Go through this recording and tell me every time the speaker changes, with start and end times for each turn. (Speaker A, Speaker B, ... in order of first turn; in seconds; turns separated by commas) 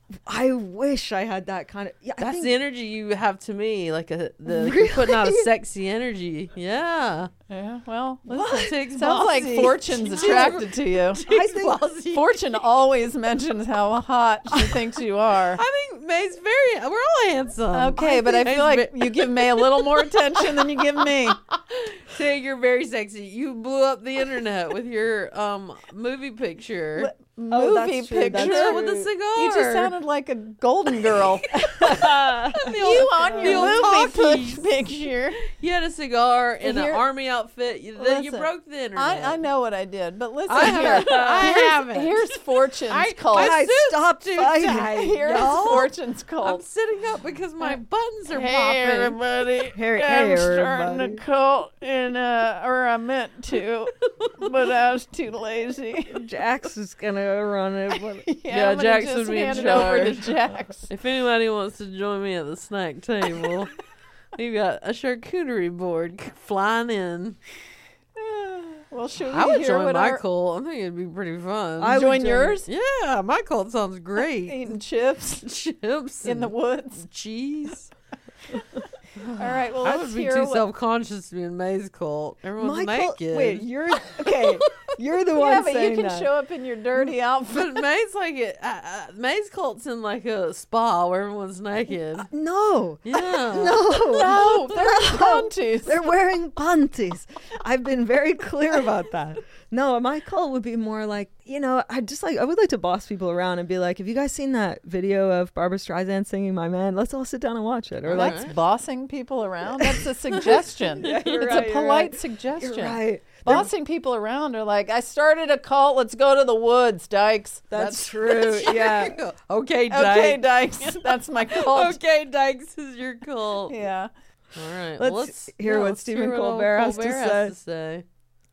Speaker A: 0.2-2.6, Speaker B: 2.2-7.3, Speaker A: 4.5-5.5, Speaker C: 7.5-11.2, Speaker A: 8.3-8.7, Speaker B: 8.3-12.5, Speaker A: 9.9-10.6, Speaker A: 11.2-11.8, Speaker C: 12.1-15.6, Speaker B: 15.5-20.8, Speaker C: 17.7-21.4, Speaker B: 21.3-27.1, Speaker C: 27.0-31.9, Speaker A: 27.5-29.1, Speaker B: 28.3-29.9, Speaker A: 31.5-33.9, Speaker B: 31.6-32.0, Speaker B: 32.5-34.7, Speaker C: 32.7-35.4, Speaker B: 35.4-39.4, Speaker C: 36.6-37.0, Speaker C: 38.0-43.5, Speaker B: 40.5-42.3, Speaker A: 40.5-41.7, Speaker B: 42.9-49.2, Speaker A: 43.3-45.1, Speaker C: 44.9-46.6, Speaker C: 47.6-56.2, Speaker A: 49.7-51.2, Speaker A: 56.1-58.2, Speaker C: 58.2-60.9, Speaker B: 58.5-60.3, Speaker A: 59.4-60.1, Speaker B: 60.9-63.7, Speaker B: 64.3-67.4, Speaker C: 68.2-70.2, Speaker B: 69.3-72.0, Speaker A: 71.8-72.6, Speaker C: 71.9-72.7, Speaker B: 72.7-74.8, Speaker C: 74.4-75.5, Speaker B: 75.4-77.9, Speaker C: 76.2-77.0, Speaker B: 79.2-84.9, Speaker C: 79.3-80.6, Speaker A: 82.6-86.3, Speaker C: 85.3-87.8, Speaker B: 87.5-92.3, Speaker A: 92.3-108.5, Speaker B: 93.0-93.8, Speaker C: 93.9-96.1, Speaker B: 108.0-108.5, Speaker C: 108.1-117.6, Speaker B: 110.4-111.5, Speaker A: 111.0-113.7, Speaker A: 117.7-119.2, Speaker B: 117.7-123.8, Speaker C: 119.9-122.0, Speaker C: 123.7-124.1, Speaker B: 124.5-128.0, Speaker A: 125.0-127.5